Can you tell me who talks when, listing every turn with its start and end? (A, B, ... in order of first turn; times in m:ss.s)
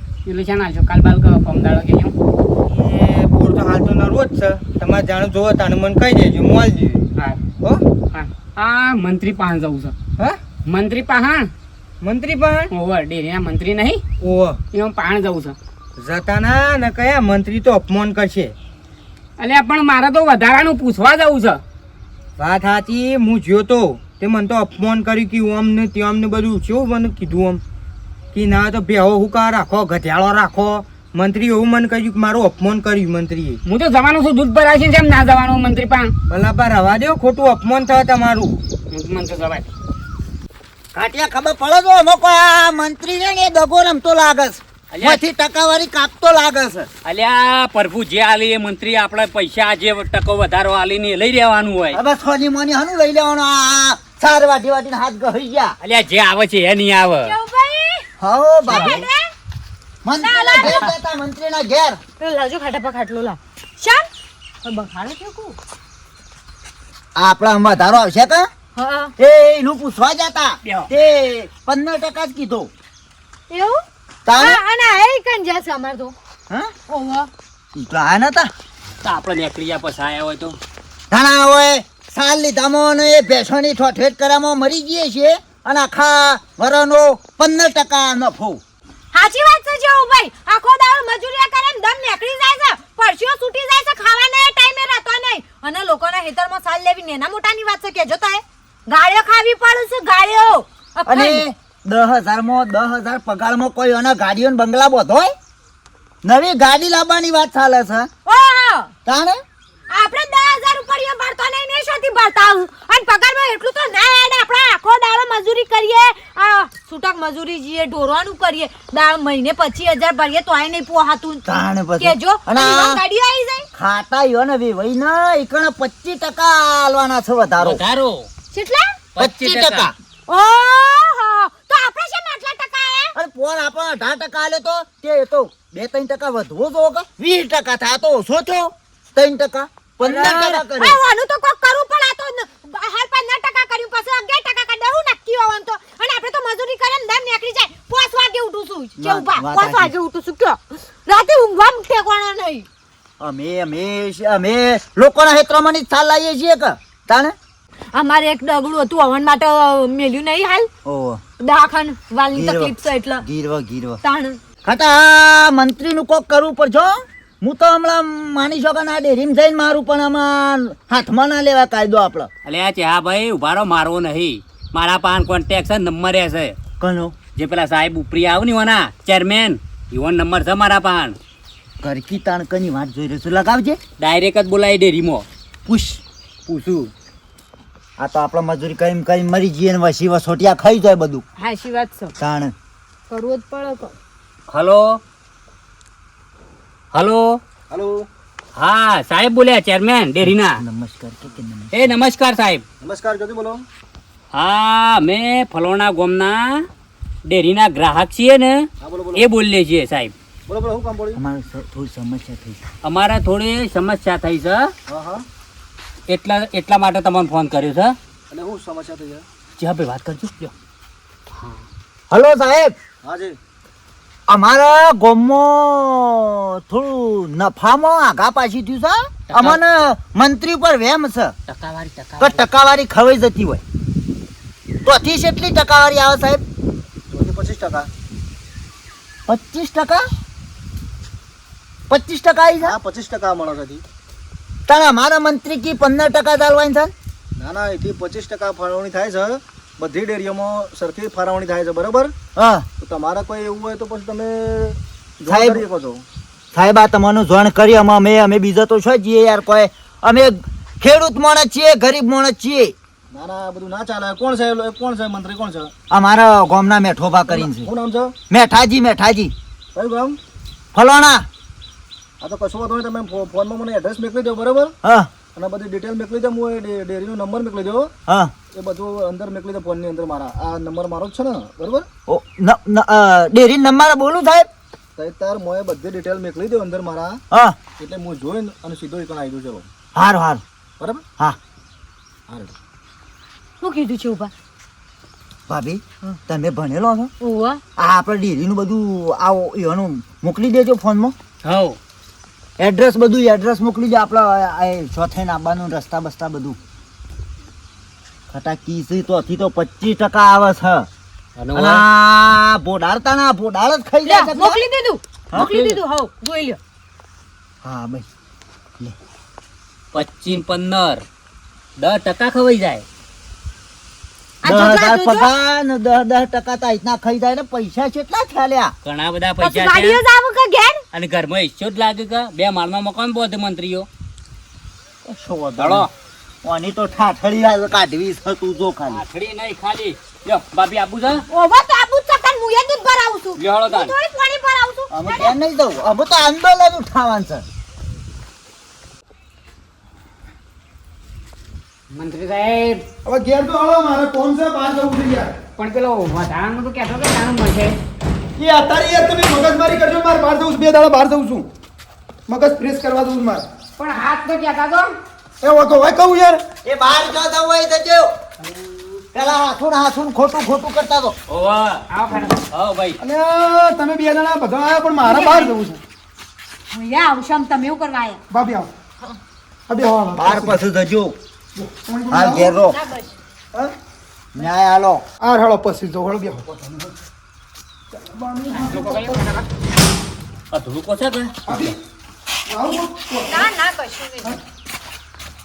0:00.2-0:02.1 A
0:02.6-0:07.1 B
0:07.2-0:07.4 A
0:08.1-0:09.9 A
0:10.6-0:11.5 A
0:12.0-0:12.7 B
0:12.7-0:14.0 A
0:14.2-0:14.6 B
0:14.7-0:15.6 A
0:16.0-0:18.5 B
0:19.4-0:21.6 A
0:22.4-0:27.6 B
0:28.3-0:33.6 B
0:33.6-0:36.1 A
0:36.3-0:38.6 B
0:38.9-0:39.6 A
0:40.9-0:46.9 C
0:44.9-0:45.2 D
0:47.0-0:52.0 D
0:51.9-0:55.7 C
0:55.8-0:57.3 D
0:57.2-0:58.1 E
0:58.2-0:59.0 C
0:58.7-0:59.3 E
0:58.7-0:59.0 D
1:00.0-1:02.0 C
1:00.2-1:00.8 E
1:02.2-1:04.1 E
1:04.6-1:05.6 E
1:07.2-1:08.5 C
1:08.8-1:09.1 E
1:09.2-1:12.7 C
1:10.6-1:10.9 D
1:13.5-1:13.8 E
1:14.2-1:14.6 C
1:14.3-1:16.1 E
1:16.9-1:17.3 E
1:17.7-1:18.5 C
1:19.0-1:20.6 D
1:21.1-1:28.6 C
1:29.1-1:41.4 E
1:41.0-1:45.3 C
1:46.2-1:48.1 C
1:48.2-1:48.9 E
1:49.0-1:49.4 C
1:49.9-2:01.4 E
2:01.4-2:03.0 C
2:02.0-2:03.7 E
2:03.7-2:07.8 C
2:07.6-2:08.3 D
2:08.5-2:09.0 E
2:09.2-2:09.9 D
2:09.2-2:09.9 C
2:10.3-2:13.1 E
2:13.1-2:21.0 C
2:20.0-2:32.6 E
2:29.0-2:29.9 C
2:33.2-2:37.3 C
2:37.9-2:40.7 E
2:40.8-2:41.2 C
2:41.4-2:43.2 E
2:42.3-2:44.0 C
2:44.0-2:44.4 E
2:44.6-2:52.3 C
2:52.4-2:56.6 D
2:56.8-2:57.2 C
2:57.4-3:01.2 D
3:01.8-3:03.8 C
3:04.0-3:05.2 D
3:05.7-3:06.0 C
3:08.0-3:11.2 C
3:11.4-3:12.1 E
3:12.2-3:12.5 C
3:13.1-3:13.9 E
3:14.5-3:15.0 D
3:16.9-3:17.4 D
3:17.7-3:18.0 F
3:18.6-3:20.6 D
3:20.5-3:21.9 C
3:21.7-3:22.6 D
3:22.8-3:23.6 F
3:24.3-3:26.7 D
3:27.2-3:30.1 D
3:28.8-3:29.3 F
3:30.5-3:31.2 F
3:31.2-3:32.6 C
3:32.8-3:34.7 D
3:34.9-3:35.2 F
3:36.1-3:38.0 D
3:38.3-3:39.2 F
3:39.6-3:40.5 D
3:41.3-3:41.6 D
3:42.1-3:42.8 C
3:43.0-3:43.4 F
3:44.3-3:51.3 C
3:49.3-3:49.6 D
3:51.5-3:52.5 D
3:52.2-3:53.6 C
3:54.8-3:56.4 C
3:57.1-3:57.9 F
3:59.3-4:00.0 C
4:01.9-4:02.8 C
4:02.6-4:03.8 F
4:04.7-4:06.9 C
4:07.4-4:12.1 F
4:12.4-4:12.7 C
4:12.8-4:16.0 F
4:15.3-4:15.6 C
4:16.5-4:22.7 C
4:23.1-4:25.7 F
4:25.9-4:27.7 C
4:27.3-4:28.1 F
4:28.3-4:29.3 C
4:29.7-4:30.2 F
4:30.7-4:31.3 C
4:32.2-4:34.7 F
4:34.8-4:35.1 C
4:35.3-4:37.9 F
4:38.1-4:38.3 C
4:38.5-4:41.9 F
4:42.1-4:44.5 C
4:45.0-4:47.2 F
4:47.3-4:47.6 C
4:47.8-4:49.7 F
4:49.9-4:50.4 C
4:52.3-4:52.5 F
4:53.6-4:54.3 E
4:55.5-4:57.1 C
4:57.2-4:57.6 E
4:57.8-5:01.1 C
5:01.4-5:01.8 D
5:02.6-5:06.6 C
5:08.3-5:10.9 C
5:11.4-5:11.8 D
5:11.5-5:14.6 C
5:14.0-5:16.6 E
5:15.3-5:15.8 C
5:17.6-5:18.1 C
5:19.9-5:21.0 D
5:21.8-5:22.8 D
5:24.4-5:25.3 E
5:24.4-5:28.7 C
5:28.8-5:30.0 D
5:29.4-5:30.8 E
5:30.9-5:33.9 D
5:35.0-5:35.9 C
5:35.6-5:35.9 D
5:36.4-5:39.0 C
5:38.9-5:41.2 D
5:41.3-5:45.3 E
5:43.4-5:43.9 D
5:44.9-5:47.4 C
5:51.9-5:52.8 A
5:53.0-5:55.3 G
5:55.6-5:57.8 A
5:58.4-6:01.5 G
6:02.3-6:03.4 G
6:03.8-6:04.9 A
6:05.4-6:06.4 G
6:06.6-6:08.1 C
6:09.1-6:11.2 C
6:11.3-6:11.8 D
6:11.9-6:12.4 A
6:12.5-6:13.0 D
6:13.0-6:15.8 G
6:15.0-6:15.5 E
6:16.7-6:18.2 E
6:18.3-6:18.7 G
6:19.7-6:20.6 G
6:20.1-6:21.2 C
6:21.5-6:22.6 G
6:22.1-6:22.8 C
6:22.6-6:23.2 E
6:24.3-6:25.0 C
6:25.2-6:27.0 G
6:27.9-6:29.2 G
6:28.5-6:29.4 A
6:30.5-6:31.7 D
6:31.5-6:31.8 G
6:32.5-6:33.5 G
6:33.3-6:34.4 E